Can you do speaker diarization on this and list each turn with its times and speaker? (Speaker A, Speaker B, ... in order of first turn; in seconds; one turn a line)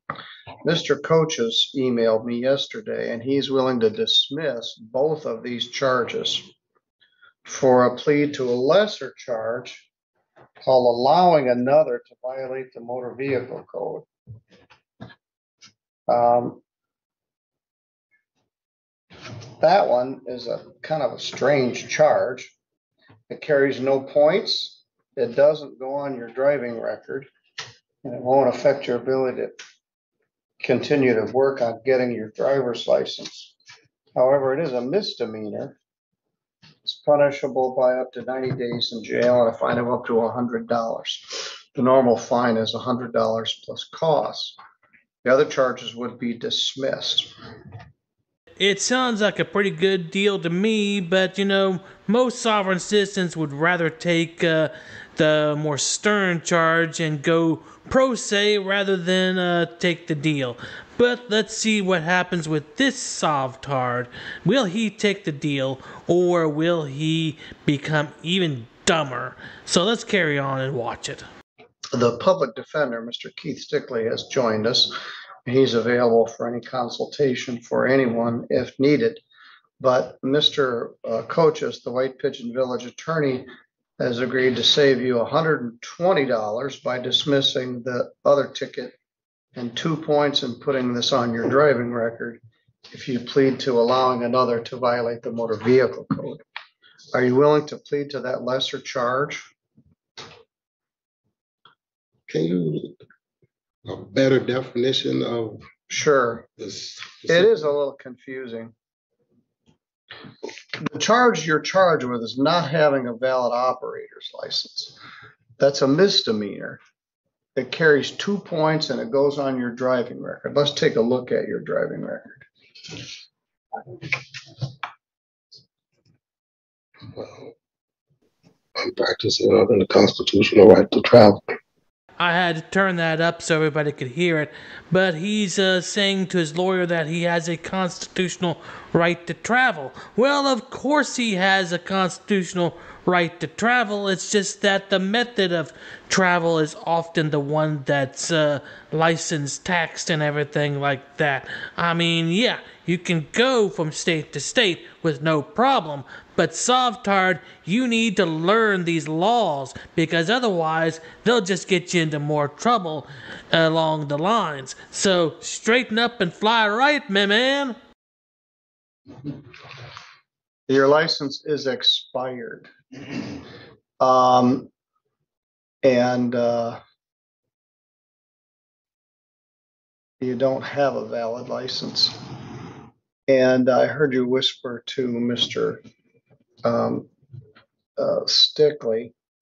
Speaker A: 0.6-6.5
Speaker A: 7.4-9.9
Speaker A: 10.6-14.1
Speaker A: 16.1-16.6
Speaker A: 19.6-22.5
Speaker A: 23.3-27.3
Speaker A: 28.0-29.5
Speaker A: 30.6-33.5
Speaker A: 34.1-35.8
Speaker A: 36.8-44.5
Speaker A: 45.2-47.3
Speaker B: 48.6-71.2
Speaker A: 71.9-74.9
Speaker A: 75.5-79.2
Speaker A: 79.8-83.5
Speaker A: 84.0-88.9
Speaker A: 89.5-92.4
Speaker A: 92.9-96.4
Speaker A: 97.1-99.5
Speaker C: 102.3-102.9
Speaker C: 103.9-105.6
Speaker A: 105.9-106.5
Speaker C: 106.6-107.6
Speaker A: 107.3-108.7
Speaker A: 110.8-115.0
Speaker A: 115.6-116.8
Speaker A: 117.5-122.5
Speaker C: 127.2-127.5
Speaker C: 128.8-131.4
Speaker B: 132.2-167.8
Speaker A: 170.7-172.7
Speaker A: 174.0-174.7
Speaker A: 175.8-176.8
Speaker A: 180.2-182.2
Speaker A: 183.3-185.8
Speaker A: 186.6-187.1
Speaker A: 188.0-189.1